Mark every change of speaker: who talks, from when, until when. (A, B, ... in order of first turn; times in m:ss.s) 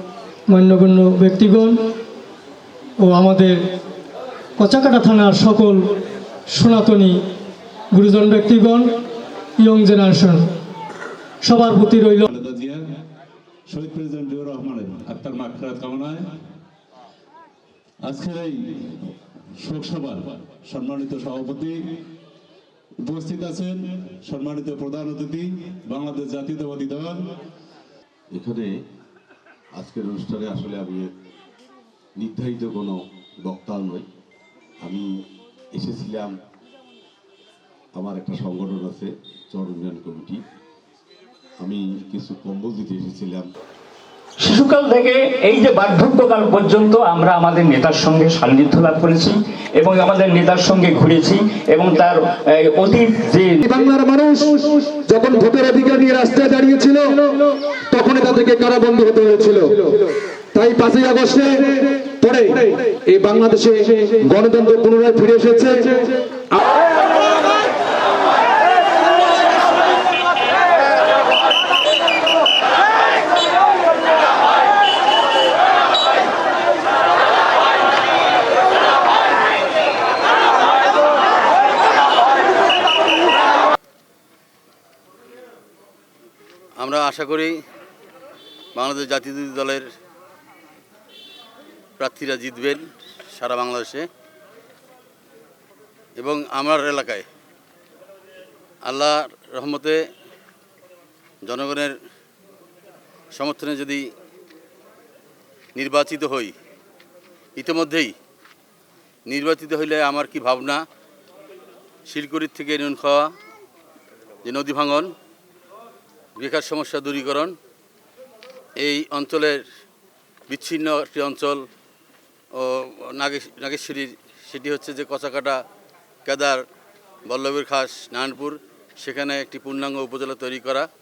0:00.5-0:01.8 A
0:03.0-0:03.6 A
0:04.6-0:05.9 A
0:06.5-0:07.2 A
0:07.9-0:08.9 A
0:09.6-0:10.5 A
0:11.4-0:12.3 A
0:12.3-0:12.8 B
0:13.7-0:16.3 B
0:18.0-0:22.0 B
0:23.0-0:27.3 B
0:28.3-0:28.7 C
0:29.8-0:31.1 C
0:32.2-0:34.0 C
0:34.8-0:35.1 C
0:35.8-0:36.3 C
0:38.0-0:40.4 C
0:41.6-0:43.5 C
0:44.4-0:53.6 D
0:53.6-1:06.2 E
1:26.8-1:27.6 F
1:28.8-1:29.8 F
1:32.0-1:32.8 F
1:33.3-1:34.1 F
1:36.2-1:37.2 F
1:38.9-1:40.0 F
1:41.4-1:42.0 F
1:43.3-1:44.0 F
1:45.8-1:46.5 F
1:47.6-1:48.1 F
1:49.3-1:50.8 F
1:52.1-1:53.3 F
1:54.4-1:55.1 F
1:56.4-1:57.6 F
1:58.8-1:59.6 F
2:00.5-2:01.6 F
2:02.6-2:05.6 F
2:06.2-2:06.6 F
2:07.3-2:10.9 F